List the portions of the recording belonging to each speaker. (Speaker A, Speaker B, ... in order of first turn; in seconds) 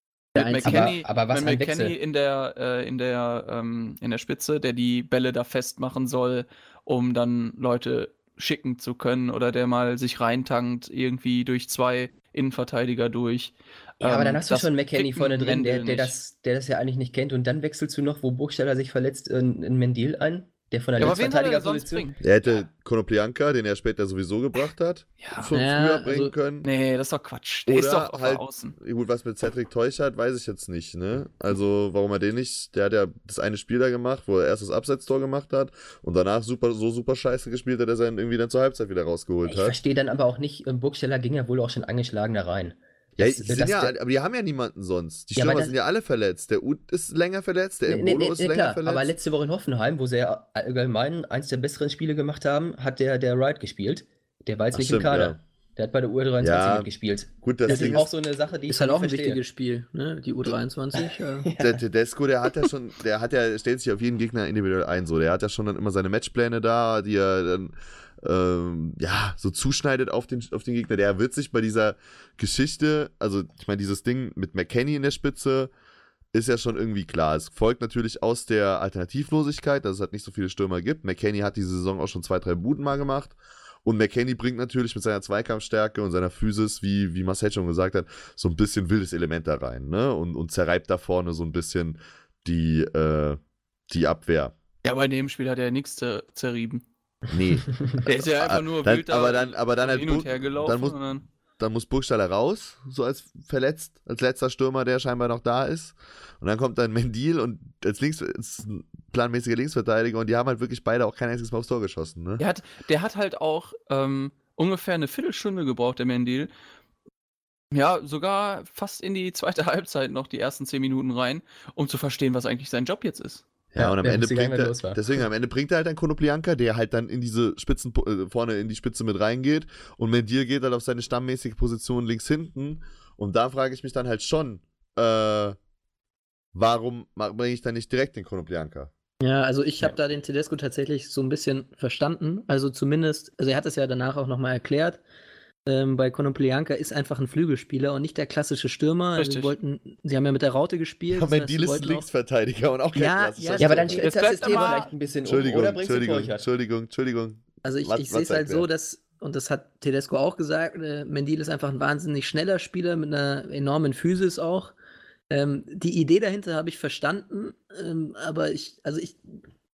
Speaker A: 0.3-0.9, 25.5-26.3, 57.7-58.0, 58.7-61.5, 139.2-145.0, 145.7-152.1, 152.9-154.1, 157.6-164.7, 165.3-169.2
Speaker B: 0.3-16.1, 21.0-22.2, 25.2-25.5, 26.6-28.8, 94.8-96.8, 98.0-101.2, 112.4-116.5, 117.7-123.4, 149.2-149.5, 154.0-154.9
Speaker C: 0.6-1.9, 14.0-22.1, 39.4-43.9, 45.3-45.7, 47.9-59.4, 60.9-61.8, 123.8-125.0, 153.6-156.5
Speaker D: 22.2-26.7, 27.7-39.8, 43.2-49.1, 54.7-55.4, 56.4-58.0, 61.6-75.7, 76.3-94.5, 97.3-101.0, 101.6-112.4, 123.7-135.6, 136.5-138.9, 151.1-154.0, 155.2-158.7